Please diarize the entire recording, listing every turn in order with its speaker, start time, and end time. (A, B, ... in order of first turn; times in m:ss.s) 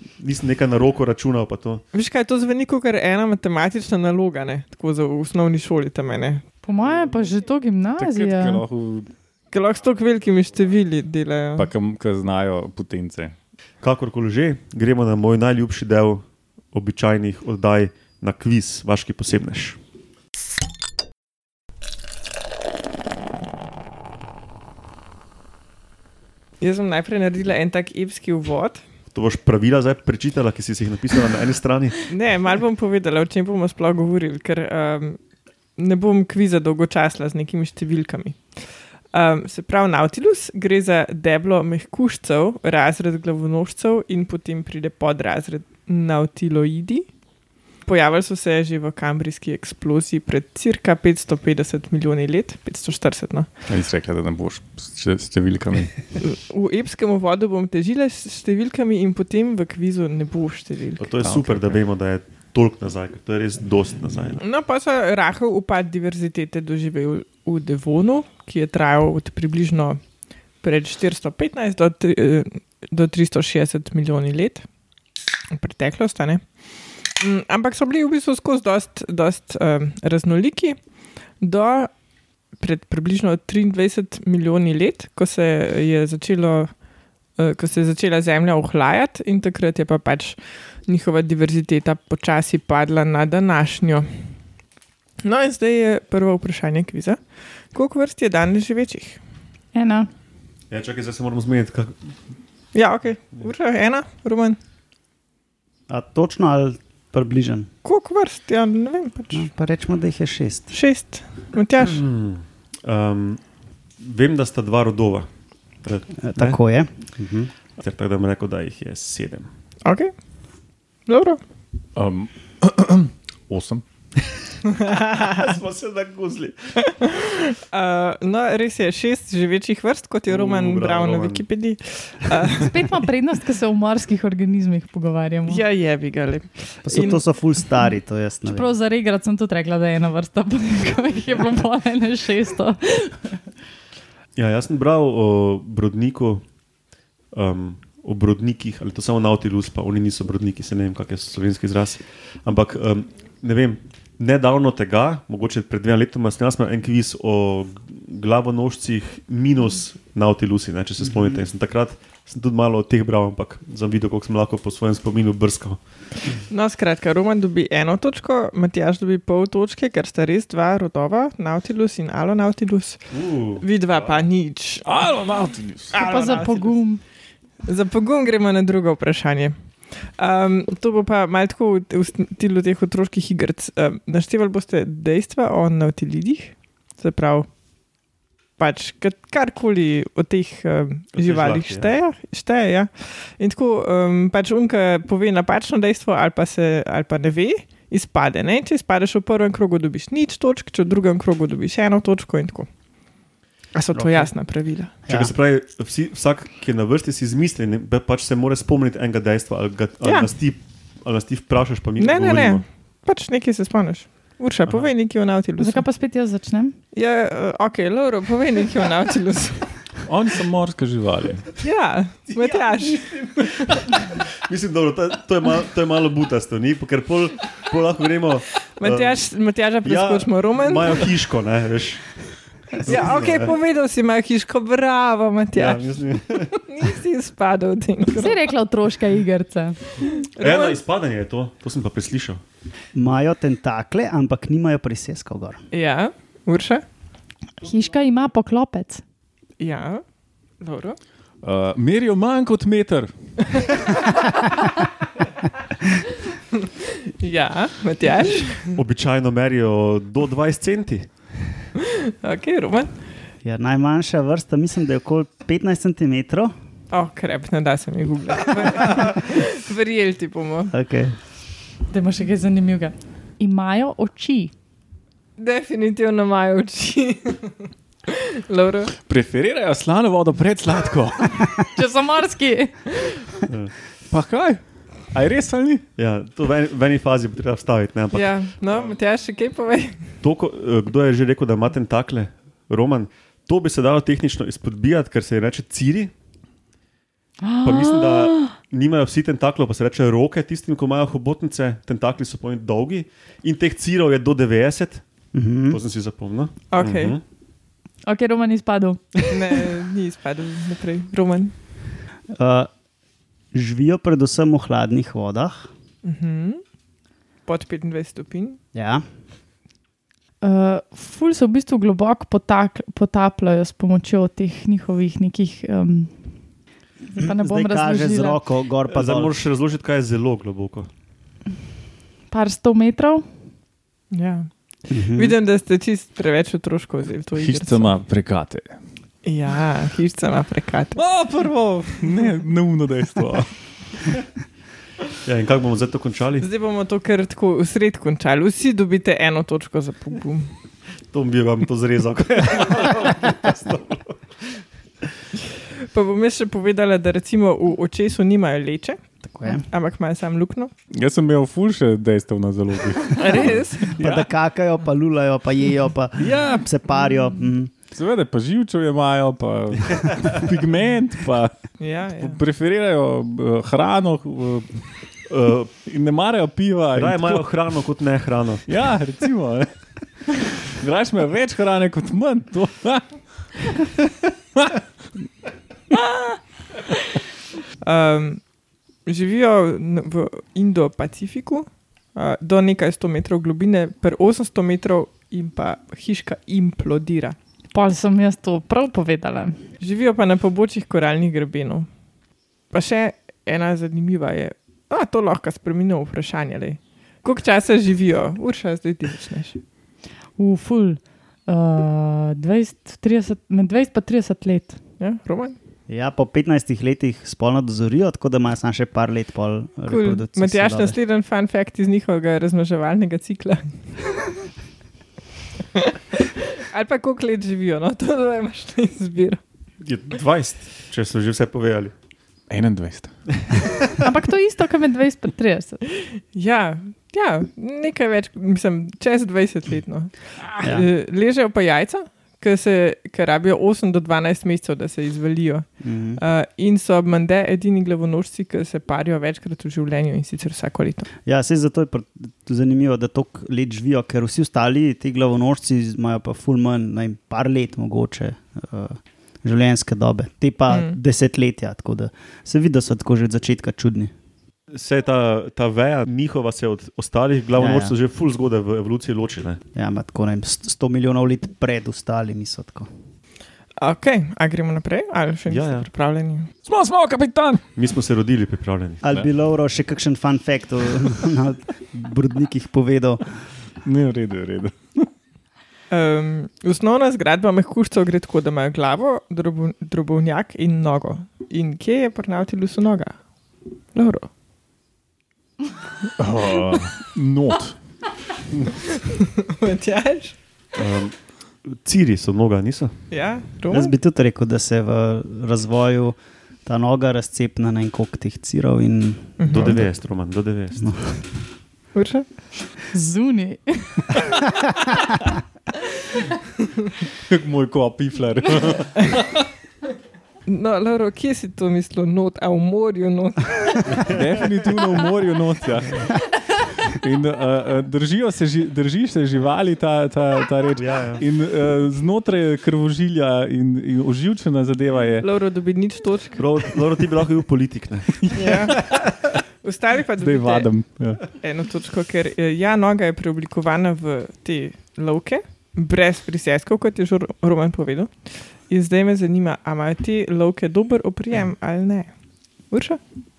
0:00.2-0:01.8 A
0:01.9-0:06.4 B
0:06.6-0:08.6 C
0:08.0-0:09.1 D
0:09.5-0:11.7 B
0:11.6-0:13.3 D
0:13.8-0:19.8 A
0:26.6-0:28.8 B
0:29.1-0:32.1 A
0:32.1-0:35.2 B
0:35.8-0:47.1 B
0:47.8-0:53.5 B
0:53.7-0:55.9 D
0:56.2-1:01.1 B
1:01.0-1:04.4 A
1:01.2-1:01.7 D
1:04.4-1:10.0 B
1:10.6-1:14.6 B
1:15.5-1:16.4 B
1:17.2-1:20.8 B
1:21.4-1:21.9 B
1:22.6-1:26.7 B
1:27.4-1:34.1 B
1:35.2-1:37.2 B
1:37.7-1:39.2 B
1:39.7-1:40.1 C
1:40.7-1:42.0 A
1:42.7-1:44.6 B
1:45.9-1:47.7 E
1:47.8-1:49.5 B
1:49.3-1:50.7 E
1:50.7-1:52.0 B
1:51.8-1:53.4 A
1:54.0-1:55.3 A
1:55.8-1:56.6 A
1:56.2-1:57.5 E
1:57.8-1:59.5 A
1:59.8-2:00.1 B
2:01.1-2:01.4 B
2:02.0-2:03.8 D
2:04.6-2:05.4 B
2:05.2-2:06.8 A
2:06.9-2:12.9 B
2:10.3-2:11.4 A
2:12.5-2:15.6 C
2:15.5-2:17.2 B
2:16.8-2:18.7 E
2:18.4-2:23.3 C
2:24.4-2:26.4 A
2:27.3-2:45.8 A
2:46.5-2:53.0 B
2:53.1-2:54.2 A
2:53.6-2:54.9 B
2:54.8-2:56.0 D
2:55.9-2:56.8 B
2:56.0-2:57.0 C
2:57.6-3:07.5 B
3:08.6-3:22.7 B
3:11.2-3:11.9 A
3:23.7-3:24.9 B
3:23.9-3:24.3 E
3:25.0-3:25.3 E
3:25.1-3:32.6 A
3:30.0-3:30.3 B
3:32.0-3:35.8 B
3:35.6-3:36.7 C
3:36.9-3:39.7 B
3:40.0-3:41.5 D
3:41.6-3:43.9 B
3:42.3-3:49.2 A
3:48.8-3:51.1 B
3:49.8-3:52.0 A
3:52.7-3:53.5 A
3:52.8-3:55.8 B
3:55.5-3:56.5 A
3:56.5-3:58.4 B
3:58.1-3:59.8 C
4:00.0-4:00.8 B
4:00.4-4:02.4 A
4:02.9-4:05.6 E
4:05.7-4:06.8 B
4:07.6-4:09.0 C
4:09.6-4:10.0 B
4:10.6-4:11.0 B
4:11.4-4:13.7 D
4:16.5-4:18.8 B
4:18.7-4:21.1 A
4:21.8-4:22.9 B
4:23.4-4:26.5 E
4:26.9-4:30.7 B
4:30.7-4:31.2 E
4:31.9-4:34.5 C
4:35.4-4:38.9 B
4:39.0-4:41.6 D
4:41.7-4:43.4 C
4:43.5-4:43.7 A
4:44.1-4:44.6 D
4:45.1-4:45.8 D
4:46.0-4:48.4 A
4:48.1-4:50.0 B
4:50.2-4:56.1 A
4:57.4-4:58.5 C
4:57.6-5:05.0 A
5:05.3-5:05.8 E
5:05.7-5:07.2 A
5:06.7-5:07.2 B
5:08.0-5:09.6 C
5:09.3-5:11.5 B
5:12.3-5:12.7 E
5:13.5-5:15.7 E
5:16.0-5:16.6 B
5:17.4-5:18.6 B
5:18.7-5:19.0 E
5:20.4-5:26.1 C
5:27.1-5:28.4 C
5:27.2-5:29.3 E
5:28.9-5:30.9 A
5:32.3-5:33.2 C
5:34.1-5:34.5 B
5:34.9-5:35.4 E
5:35.0-5:38.0 B
5:37.4-5:38.7 D
5:39.2-5:41.0 B
5:41.0-5:43.5 D
5:45.2-5:46.4 A
5:46.4-5:50.5 B
5:51.1-5:54.6 A
5:55.8-5:59.0 B
5:59.2-5:59.6 E
5:59.6-6:00.7 B
6:00.9-6:04.1 D
6:03.2-6:04.2 B
6:04.0-6:07.7 E
6:07.9-6:11.6 D
6:11.8-6:12.4 B
6:12.2-6:14.7 D
6:15.3-6:15.7 A
6:15.8-6:17.4 D
6:16.9-6:18.7 A
6:18.7-6:19.7 D
6:20.2-6:23.8 D
6:24.5-6:24.8 D
6:27.8-6:28.4 B
6:29.0-6:37.4 B
6:37.7-6:39.6 C
6:39.8-6:41.9 B
6:42.7-6:49.6 B
6:50.4-6:54.8 C
6:55.0-6:55.6 B
6:55.9-7:01.0 E
6:59.9-7:04.3 B
7:05.7-7:09.4 B
7:09.8-7:11.9 A
7:12.5-7:13.1 D
7:14.0-7:15.8 C
7:16.0-7:31.1 B
7:20.6-7:20.8 E
7:25.8-7:26.2 E
7:31.2-7:44.1 E
7:40.7-7:41.0 B
7:44.7-7:49.6 A
7:47.6-7:47.9 E
7:49.7-7:52.9 E
7:53.8-7:56.5 B
7:55.5-7:55.9 A
7:56.6-7:57.6 D
7:57.8-7:59.0 A
7:59.0-8:03.3 E
8:03.8-8:05.1 D
8:05.9-8:13.2 B
8:13.9-8:14.3 B
8:16.2-8:17.8 D
8:18.9-8:20.4 B
8:20.8-8:22.9 A
8:23.1-8:23.9 B
8:23.7-8:29.8 E
8:29.4-8:29.8 B
8:29.5-8:31.0 A
8:31.9-8:32.3 B
8:32.9-8:34.2 C
8:37.2-8:39.4 D
8:40.4-8:44.1 B
8:44.1-8:46.2 D
8:46.8-8:55.2 D
8:50.8-8:51.2 A
8:55.2-8:56.4 B
8:56.4-8:59.0 A
8:58.2-8:58.6 D
8:58.3-8:58.8 B
8:59.6-9:00.7 B
9:00.2-9:01.2 D
9:01.2-9:12.1 B
9:12.7-9:13.0 B